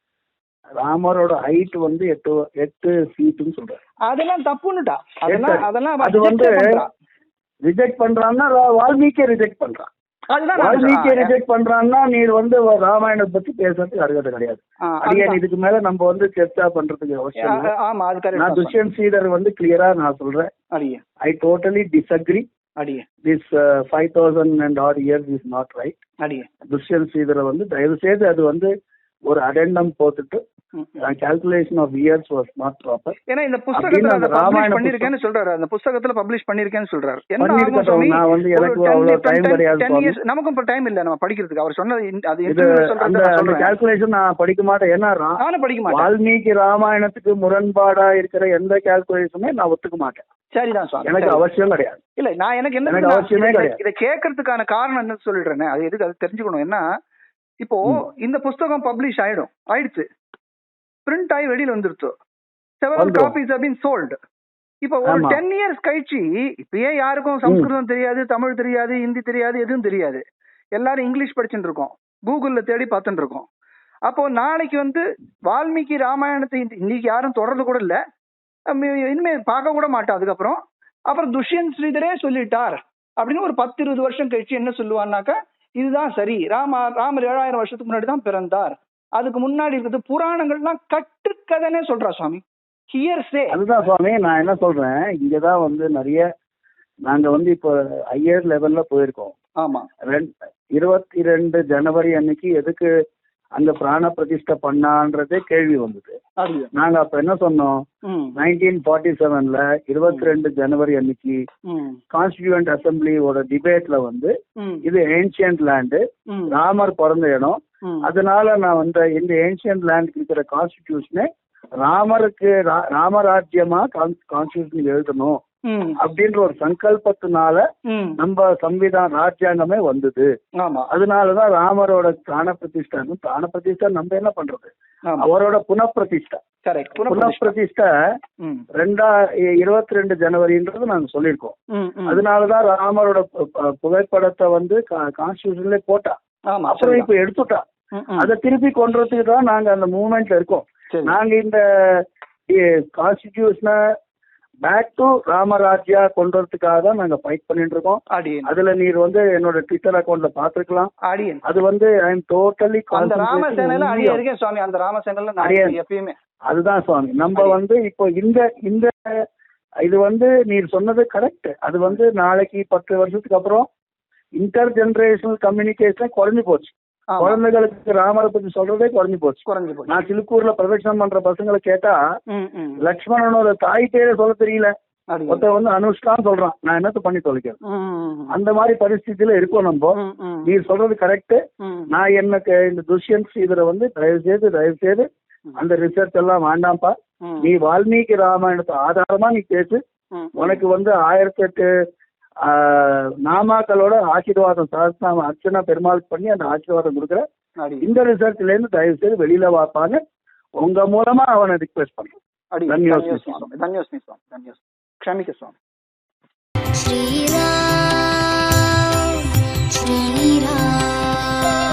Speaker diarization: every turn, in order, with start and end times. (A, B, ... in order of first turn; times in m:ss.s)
0:00.8-0:03.8 A
0:04.1-0:06.9 B
0:05.3-0:06.8 A
0:07.6-0:09.9 A
0:10.3-0:11.4 B
0:10.6-0:17.7 A
0:14.9-0:15.4 B
0:17.4-0:18.8 B
0:18.4-0:20.5 A
0:20.7-0:21.0 B
0:21.2-0:22.5 A
0:22.8-0:23.0 B
0:23.2-0:26.0 A
0:26.7-0:28.7 A
0:29.3-0:30.4 A
0:30.8-0:31.1 B
0:31.0-0:33.2 A
0:33.3-0:43.7 B
0:33.7-0:35.1 A
0:37.4-0:40.2 A
0:42.5-0:45.4 A
0:45.4-0:46.1 B
0:45.9-0:50.2 A
0:50.5-0:51.4 B
0:51.0-0:52.0 A
0:52.2-0:56.8 B
0:52.9-0:53.8 A
0:57.6-1:00.0 B
1:01.1-1:02.2 B
1:02.8-1:04.2 B
1:03.0-1:03.4 A
1:04.8-1:10.2 B
1:05.0-1:05.4 A
1:10.8-1:13.5 B
1:14.1-1:18.0 B
1:18.7-1:20.6 B
1:21.1-1:33.6 B
1:33.5-1:36.3 A
1:37.0-1:39.4 A
1:39.6-1:39.9 B
1:40.1-1:42.9 A
1:43.6-1:46.2 A
1:46.4-1:46.7 B
1:46.7-1:47.8 A
1:48.1-1:48.4 B
1:48.4-1:51.4 A
1:50.1-1:50.4 B
1:51.7-1:52.0 B
1:52.1-1:54.3 A
1:54.6-1:54.9 B
1:54.8-2:01.3 A
1:56.3-1:56.6 B
1:57.8-1:58.1 B
2:01.8-2:05.4 A
2:05.7-2:06.0 B
2:06.0-2:07.6 A
2:07.9-2:08.2 B
2:08.2-2:10.3 A
2:10.6-2:10.9 B
2:10.9-2:16.4 A
2:16.6-2:17.6 B
2:17.1-2:17.9 A
2:18.4-2:18.7 B
2:18.8-2:21.6 A
2:21.8-2:22.2 B
2:22.1-2:26.2 A
2:26.5-2:27.1 B
2:26.7-2:27.6 A
2:27.9-2:28.3 B
2:28.2-2:33.8 A
2:30.9-2:31.2 B
2:34.6-2:40.9 A
2:38.1-2:38.5 B
2:41.1-2:41.4 B
2:41.4-2:44.2 A
2:42.9-2:46.2 B
2:45.4-2:45.8 A
2:46.5-2:49.0 A
2:47.3-2:47.6 B
2:49.8-2:53.7 A
2:54.4-3:02.0 A
2:57.1-2:57.4 B
2:59.5-3:00.0 B
3:02.3-3:02.8 B
3:02.8-3:04.7 A
3:05.1-3:05.5 B
3:05.3-3:07.6 A
3:07.6-3:08.4 B
3:08.3-3:15.1 A
3:10.0-3:10.6 B
3:11.6-3:11.9 B
3:15.6-3:19.8 A
3:17.2-3:17.5 B
3:20.1-3:20.6 B
3:20.4-3:21.7 A
3:22.4-3:27.2 A
3:27.6-3:27.9 B
3:27.8-3:30.0 A
3:30.6-3:32.2 A
3:32.5-3:35.6 B
3:32.7-3:33.5 A
3:36.8-3:41.4 C